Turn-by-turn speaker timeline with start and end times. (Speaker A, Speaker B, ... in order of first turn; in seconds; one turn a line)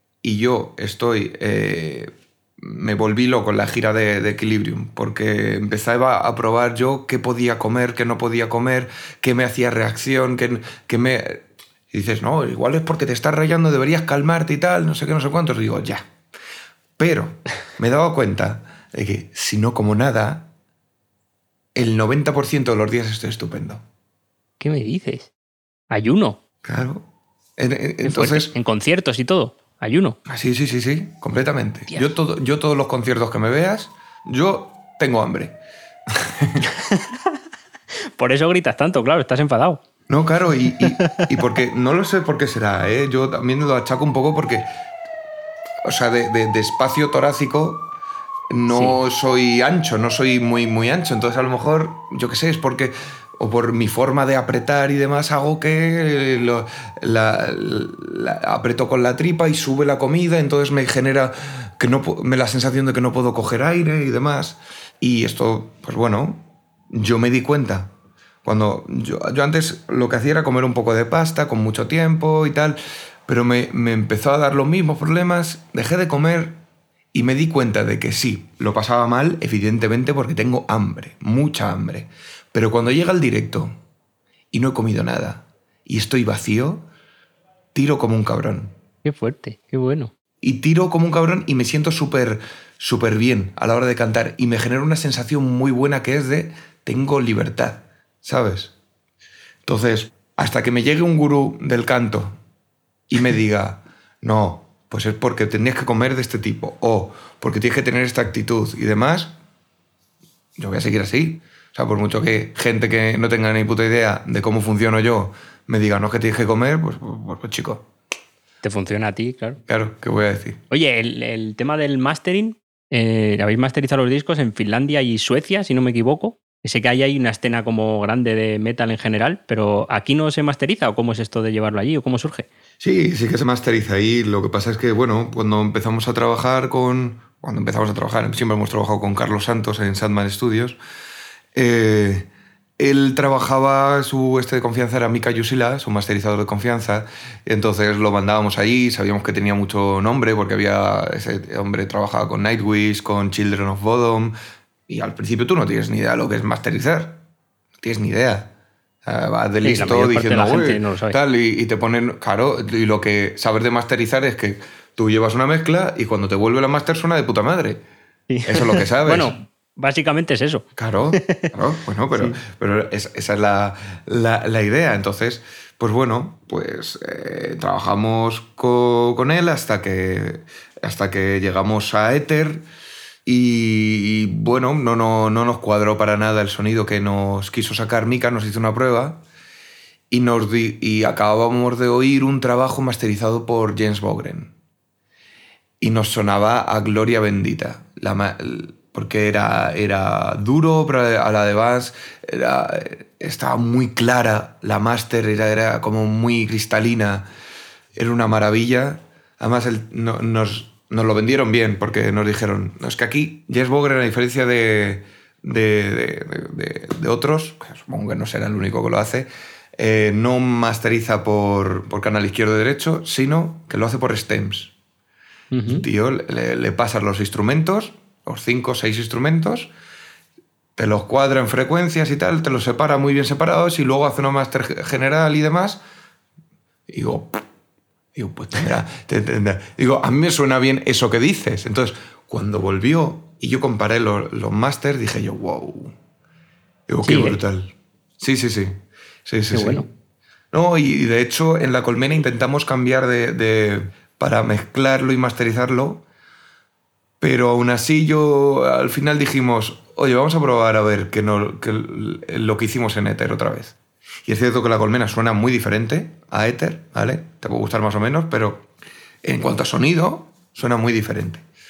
Speaker A: 0.2-16.1
Speaker A: 17.0-20.5
Speaker A: 21.7-23.8
Speaker B: 24.6-25.3
Speaker B: 25.9-26.4
Speaker A: 26.6-27.1
Speaker A: 27.6-28.5
Speaker B: 28.0-30.2
Speaker A: 30.2-35.6
Speaker A: 36.1-36.6
Speaker B: 36.7-37.1
Speaker B: 38.2-39.8
Speaker A: 40.1-44.7
Speaker B: 41.0-41.3
Speaker A: 45.8-47.9
Speaker A: 48.5-67.9
Speaker B: 48.7-49.0
Speaker A: 68.4-76.6
Speaker A: 77.1-83.7
Speaker A: 84.5-86.8
Speaker A: 87.7-88.7
Speaker B: 89.0-90.1
Speaker A: 90.4-98.7
Speaker A: 99.6-102.3
Speaker A: 103.1-109.3
Speaker A: 110.6-117.9
Speaker B: 118.6-119.6
Speaker A: 119.7-120.6
Speaker B: 120.7-132.5
Speaker A: 132.8-140.8
Speaker A: 141.5-154.3
Speaker A: 154.9-157.2
Speaker A: 157.8-158.5
Speaker A: 159.0-167.8
Speaker B: 159.6-161.2
Speaker B: 168.3-171.5
Speaker A: 168.4-169.3
Speaker A: 170.8-182.6
Speaker B: 172.1-172.4
Speaker A: 183.2-189.2
Speaker A: 190.1-194.5
Speaker A: 195.8-207.3
Speaker A: 207.9-224.7
Speaker B: 225.5-225.8
Speaker A: 225.7-229.7
Speaker A: 230.8-235.8
Speaker A: 236.9-237.4
Speaker A: 238.1-245.9
Speaker A: 246.9-249.9
Speaker B: 247.0-247.4
Speaker B: 249.5-249.9
Speaker A: 250.5-256.0
Speaker A: 257.2-268.7
Speaker A: 269.2-271.4